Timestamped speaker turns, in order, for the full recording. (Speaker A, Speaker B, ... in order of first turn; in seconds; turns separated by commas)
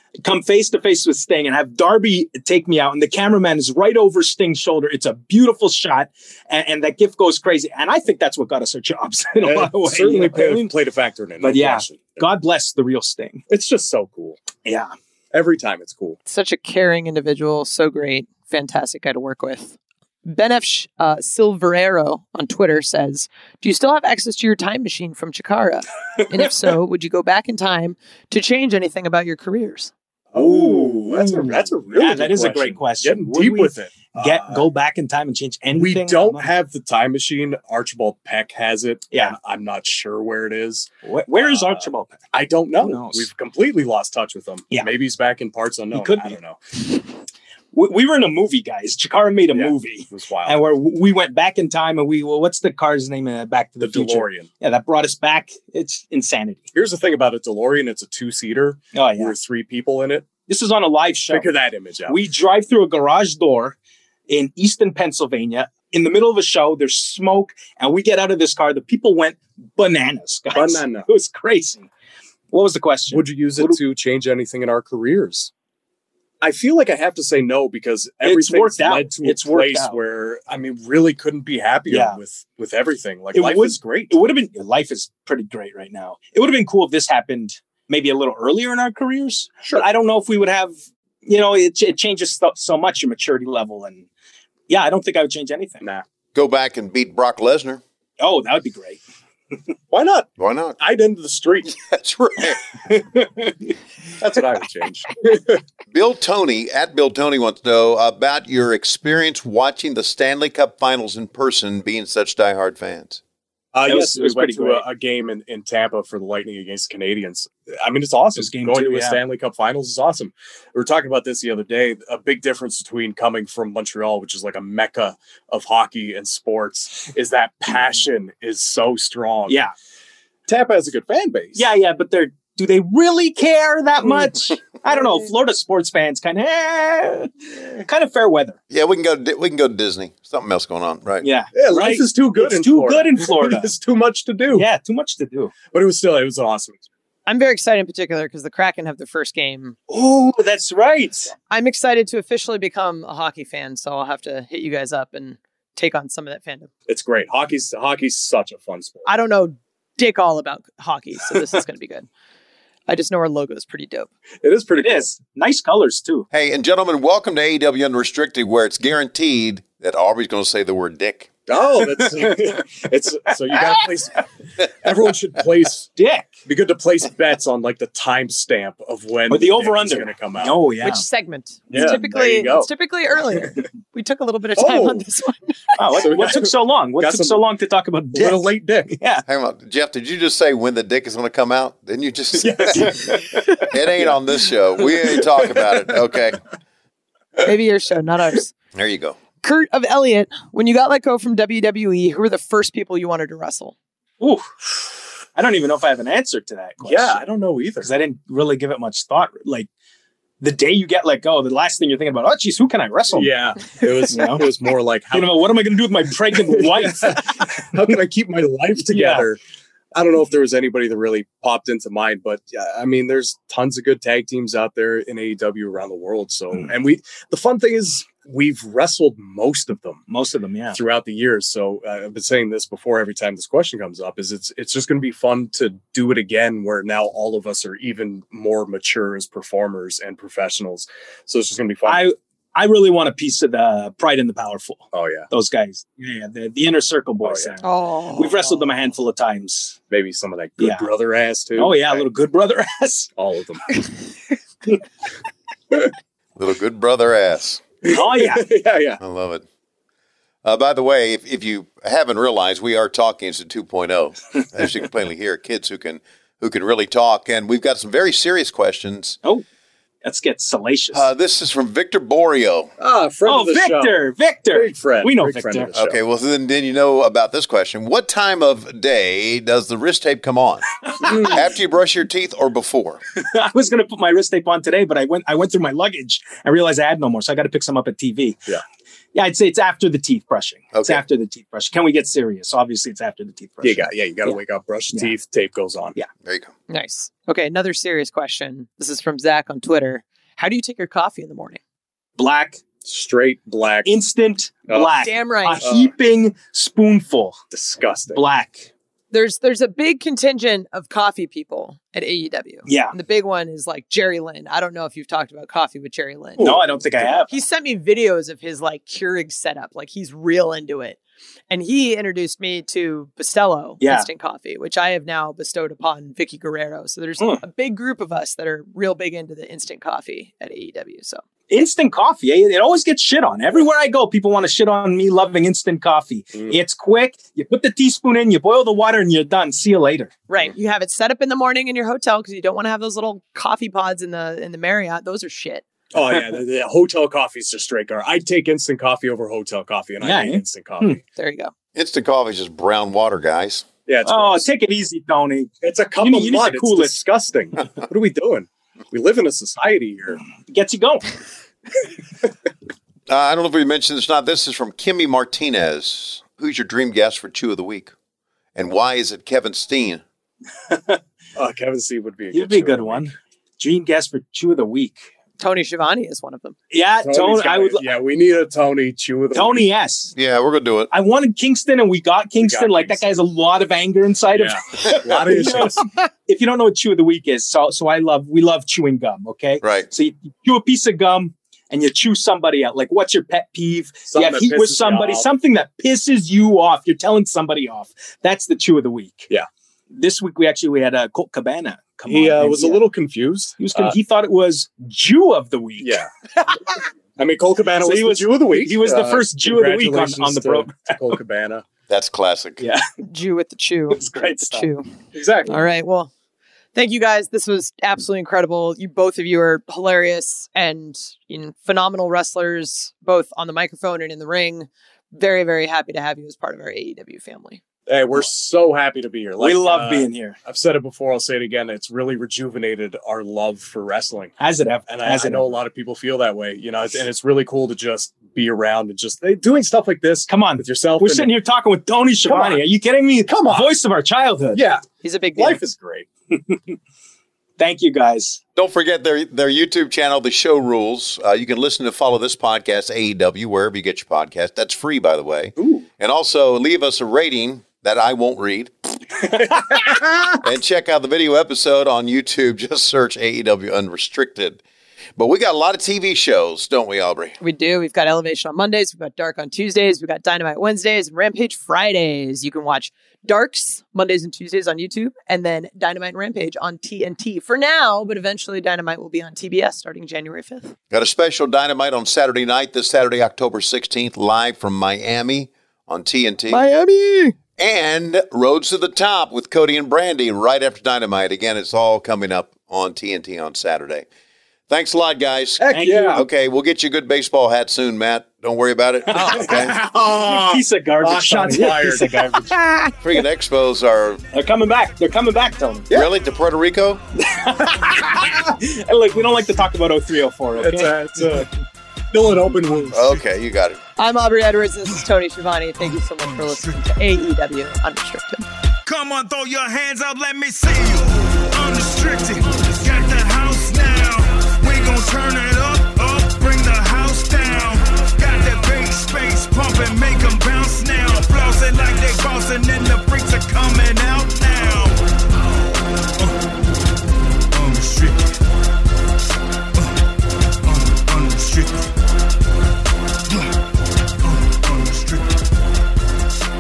Speaker A: 0.2-10.7, Speaker B: 9.4-12.2, Speaker A: 11.4-13.4, Speaker B: 13.5-14.4, Speaker A: 14.6-14.9, Speaker B: 15.3-16.2, Speaker C: 16.3-29.9, Speaker B: 30.3-34.7, Speaker A: 30.4-36.5, Speaker B: 35.7-46.6, Speaker A: 39.1-39.4, Speaker A: 41.0-42.2, Speaker A: 42.8-43.3, Speaker A: 45.9-46.4, Speaker A: 47.7-56.6, Speaker B: 49.5-50.7, Speaker B: 53.8-54.5, Speaker B: 56.7-60.3, Speaker A: 58.9-59.3, Speaker A: 60.5-61.5, Speaker B: 61.3-62.2, Speaker A: 62.1-63.8, Speaker A: 64.3-71.9, Speaker B: 70.5-71.1, Speaker A: 72.5-73.8, Speaker B: 73.1-75.5, Speaker B: 76.4-84.2, Speaker A: 78.2-80.0, Speaker A: 81.9-82.2, Speaker A: 83.3-94.1, Speaker A: 94.7-95.8, Speaker D: 96.3-97.8, Speaker A: 98.2-99.0, Speaker B: 99.9-101.8, Speaker D: 100.4-100.8, Speaker D: 101.8-102.5, Speaker A: 102.9-103.5, Speaker B: 104.2-105.6, Speaker D: 105.9-113.2, Speaker B: 113.7-129.6, Speaker A: 113.9-114.8, Speaker A: 118.4-119.2, Speaker A: 129.5-129.7, Speaker B: 130.5-131.7, Speaker A: 131.6-138.6, Speaker D: 138.7-141.3, Speaker A: 141.2-143.7, Speaker B: 141.6-144.7, Speaker A: 144.5-145.5, Speaker B: 145.7-146.8, Speaker C: 147.3-149.8, Speaker A: 149.9-151.3, Speaker C: 151.5-156.7, Speaker B: 156.9-159.1, Speaker C: 159.1-162.1, Speaker C: 162.9-164.1, Speaker B: 164.4-165.1, Speaker A: 164.8-166.3, Speaker D: 166.3-171.3, Speaker B: 171.5-180.6, Speaker A: 176.0-176.4, Speaker A: 179.3-181.1, Speaker C: 180.8-186.0, Speaker B: 181.7-182.7, Speaker B: 184.6-185.0, Speaker A: 185.8-189.2, Speaker B: 185.9-187.4, Speaker B: 188.1-188.9, Speaker D: 189.3-196.4, Speaker B: 192.5-193.4, Speaker A: 192.6-193.4, Speaker C: 197.4-198.5, Speaker D: 198.7-199.2, Speaker C: 199.4-203.8, Speaker A: 204.2-204.5, Speaker A: 205.3-207.2, Speaker B: 206.8-207.9, Speaker A: 207.8-209.7, Speaker A: 210.4-213.3, Speaker B: 213.1-215.5, Speaker A: 214.1-214.5, Speaker A: 215.1-217.6, Speaker B: 216.3-219.4, Speaker A: 218.9-219.3, Speaker B: 219.9-230.1, Speaker A: 230.1-230.8, Speaker B: 230.7-242.1, Speaker A: 241.8-249.8, Speaker B: 244.9-245.3, Speaker B: 247.2-247.6, Speaker C: 247.6-248.6, Speaker B: 249.9-252.1, Speaker A: 250.6-250.9, Speaker A: 251.6-253.1, Speaker B: 253.2-253.8, Speaker D: 256.4-257.6, Speaker A: 257.8-258.5, Speaker B: 257.9-259.0, Speaker D: 259.0-259.4, Speaker D: 260.4-269.2, Speaker A: 270.0-271.1, Speaker D: 270.9-272.7, Speaker B: 272.8-276.0, Speaker A: 273.2-275.7, Speaker D: 275.8-283.0, Speaker B: 281.0-281.4, Speaker A: 283.2-288.5, Speaker A: 289.1-294.4, Speaker D: 290.7-291.0, Speaker B: 293.6-296.0, Speaker D: 296.2-296.5, Speaker C: 296.7-301.6, Speaker A: 302.2-302.6, Speaker B: 302.9-303.9, Speaker A: 303.9-307.4, Speaker C: 305.0-305.6, Speaker B: 305.6-305.9, Speaker B: 307.5-308.2, Speaker A: 308.1-308.7, Speaker C: 309.1-316.6, Speaker A: 312.7-313.0, Speaker B: 316.4-317.2, Speaker A: 316.4-317.3, Speaker C: 317.3-321.0, Speaker C: 321.5-331.2, Speaker A: 323.8-324.1, Speaker A: 331.5-340.2, Speaker C: 340.3-345.6, Speaker B: 345.9-351.0, Speaker A: 350.0-351.0, Speaker C: 351.2-351.5, Speaker D: 351.8-353.7, Speaker B: 353.9-354.5, Speaker A: 354.1-357.0, Speaker B: 355.6-360.2, Speaker A: 360.5-361.1, Speaker D: 363.1-367.9, Speaker D: 368.6-370.0, Speaker A: 370.7-371.0, Speaker B: 371.4-373.0, Speaker A: 372.3-375.0, Speaker C: 375.4-376.6, Speaker A: 376.7-377.9, Speaker B: 377.0-379.7, Speaker A: 379.3-380.1, Speaker D: 380.1-380.9, Speaker A: 380.9-399.3, Speaker B: 382.4-383.2, Speaker B: 384.3-385.9, Speaker D: 389.6-389.9, Speaker B: 394.1-395.3, Speaker A: 399.9-402.8, Speaker B: 402.1-404.0, Speaker A: 403.6-406.0, Speaker B: 405.8-406.6, Speaker B: 407.2-411.7, Speaker A: 407.8-410.9, Speaker D: 411.9-412.6, Speaker A: 412.6-412.9, Speaker C: 413.0-414.9, Speaker A: 413.9-414.7, Speaker B: 415.1-415.6, Speaker C: 415.5-416.1, Speaker C: 416.8-427.6, Speaker B: 427.9-441.3, Speaker A: 429.4-430.4, Speaker A: 434.4-435.6, Speaker A: 440.3-444.6, Speaker B: 442.2-442.6, Speaker B: 443.2-443.8, Speaker B: 444.5-444.8, Speaker C: 445.0-445.6, Speaker B: 445.4-446.1, Speaker A: 446.3-446.8, Speaker A: 447.6-448.4, Speaker D: 448.6-459.0, Speaker B: 455.6-455.9, Speaker B: 459.5-460.3, Speaker D: 460.4-464.6, Speaker D: 465.2-467.4, Speaker C: 467.4-480.8, Speaker D: 480.9-486.6, Speaker C: 486.5-487.4, Speaker D: 487.6-494.1, Speaker D: 494.7-499.8, Speaker B: 495.6-496.3, Speaker A: 495.7-496.3, Speaker A: 499.1-502.8, Speaker B: 499.2-502.5, Speaker D: 503.0-504.2, Speaker A: 504.3-505.9, Speaker D: 505.9-507.0, Speaker A: 507.2-510.9, Speaker B: 507.8-508.4, Speaker B: 510.6-511.5, Speaker B: 512.1-513.2, Speaker D: 512.9-513.8, Speaker C: 514.0-518.5, Speaker E: 515.9-516.8, Speaker E: 518.9-536.5, Speaker E: 537.5-538.4, Speaker E: 539.8-540.0, Speaker E: 540.6-541.9, Speaker E: 543.3-543.6, Speaker E: 544.2-545.4